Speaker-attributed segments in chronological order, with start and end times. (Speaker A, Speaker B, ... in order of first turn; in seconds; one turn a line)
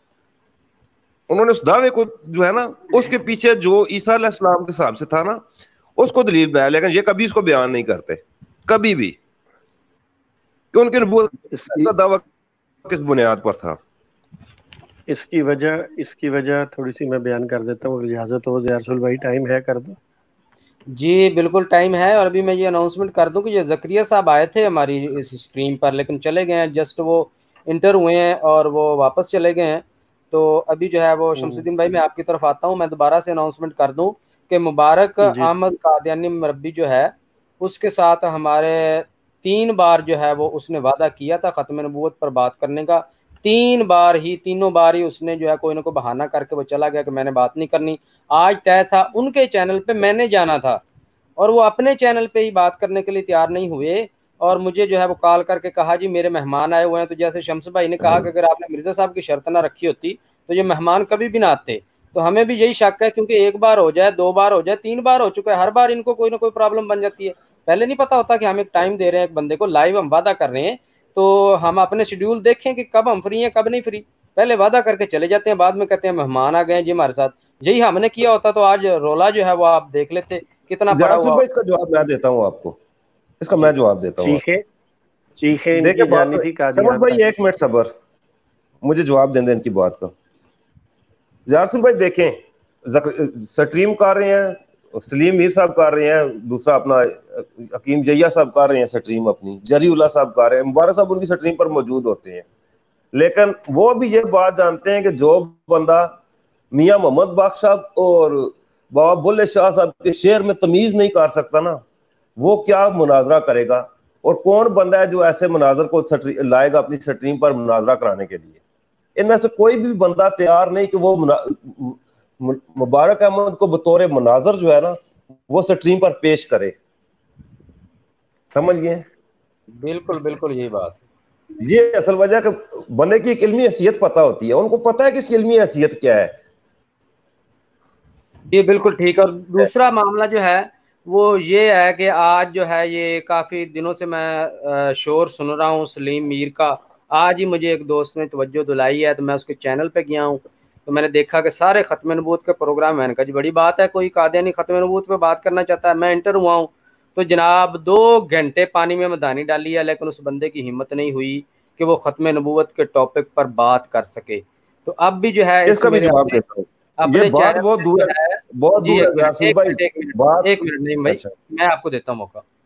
Speaker A: 1.3-5.4
Speaker A: 6.0-9.2
Speaker A: 10.7-12.2
Speaker B: 11.5-11.9
Speaker A: 12.8-13.8
Speaker B: 15.1-20.0
Speaker C: 20.9-50.8
Speaker B: 31.4-31.6
Speaker B: 35.2-35.5
Speaker C: 51.4-81.4
Speaker A: 80.9-82.8
Speaker A: 83.4-84.4
Speaker B: 83.6-84.6
Speaker B: 85.4-87.4
Speaker A: 85.8-87.9
Speaker A: 88.8-90.1
Speaker A: 91.5-102.4
Speaker A: 103.1-106.1
Speaker A: 106.7-111.8
Speaker A: 112.4-118.6
Speaker A: 119.2-126.7
Speaker A: 128.5-129.0
Speaker C: 129.8-131.0
Speaker A: 131.6-136.3
Speaker C: 138.5-166.4
Speaker A: 165.6-170.5
Speaker C: 167.0-172.4
Speaker A: 171.0-171.3